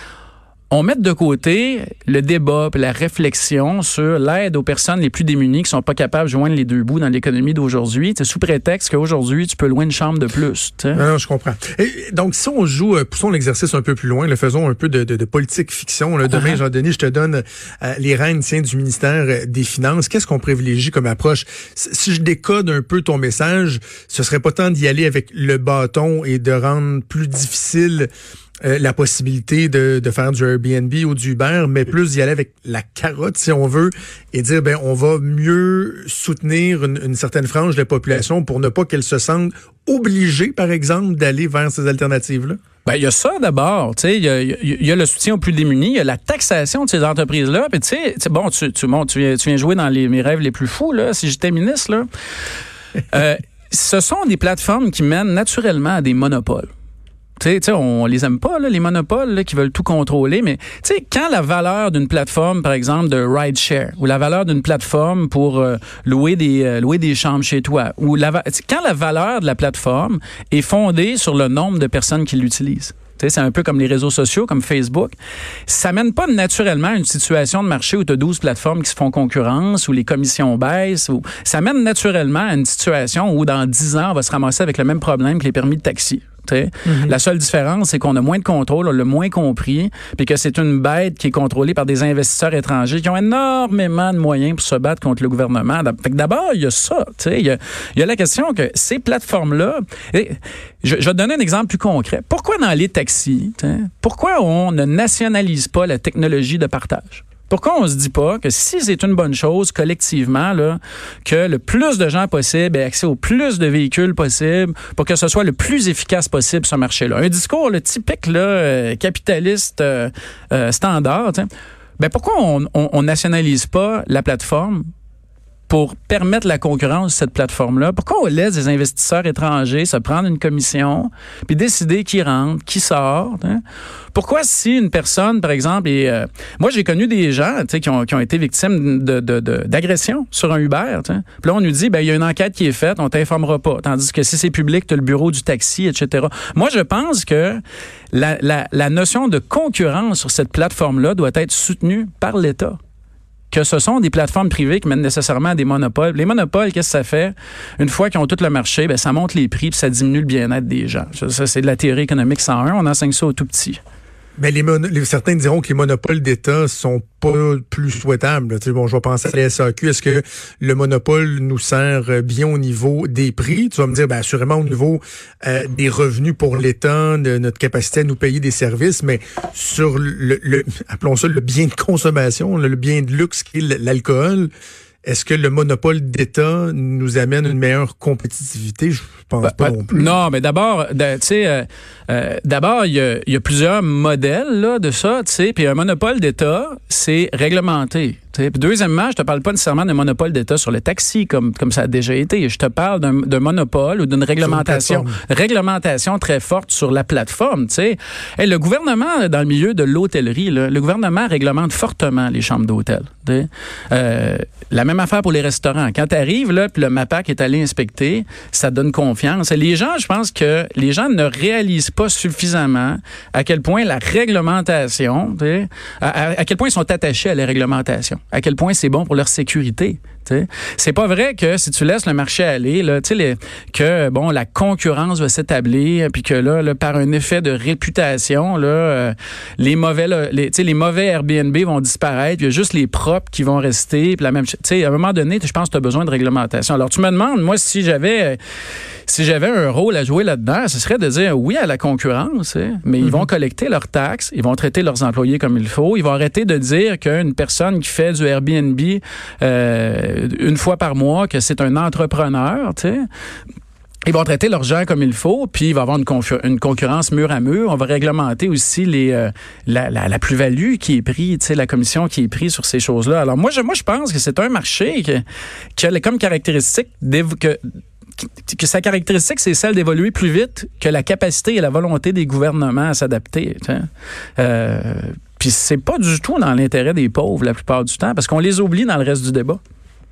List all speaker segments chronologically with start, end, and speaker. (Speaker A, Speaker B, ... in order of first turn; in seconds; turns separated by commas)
Speaker A: 0.7-11.0, Speaker B: 10.9-28.1, Speaker B: 28.6-42.6, Speaker A: 42.8-52.0, Speaker A: 53.1-56.7, Speaker A: 57.4-75.2, Speaker A: 75.7-121.5, Speaker B: 86.8-87.1, Speaker A: 122.0-124.8, Speaker A: 125.7-133.6, Speaker A: 134.1-147.6, Speaker A: 148.1-152.8, Speaker A: 153.5-163.8, Speaker B: 164.4-184.5, Speaker B: 185.0-190.2, Speaker A: 189.4-248.4, Speaker B: 204.4-205.2, Speaker A: 249.1-263.0, Speaker B: 253.0-253.3, Speaker A: 264.0-275.2, Speaker A: 275.8-277.6, Speaker A: 278.2-289.6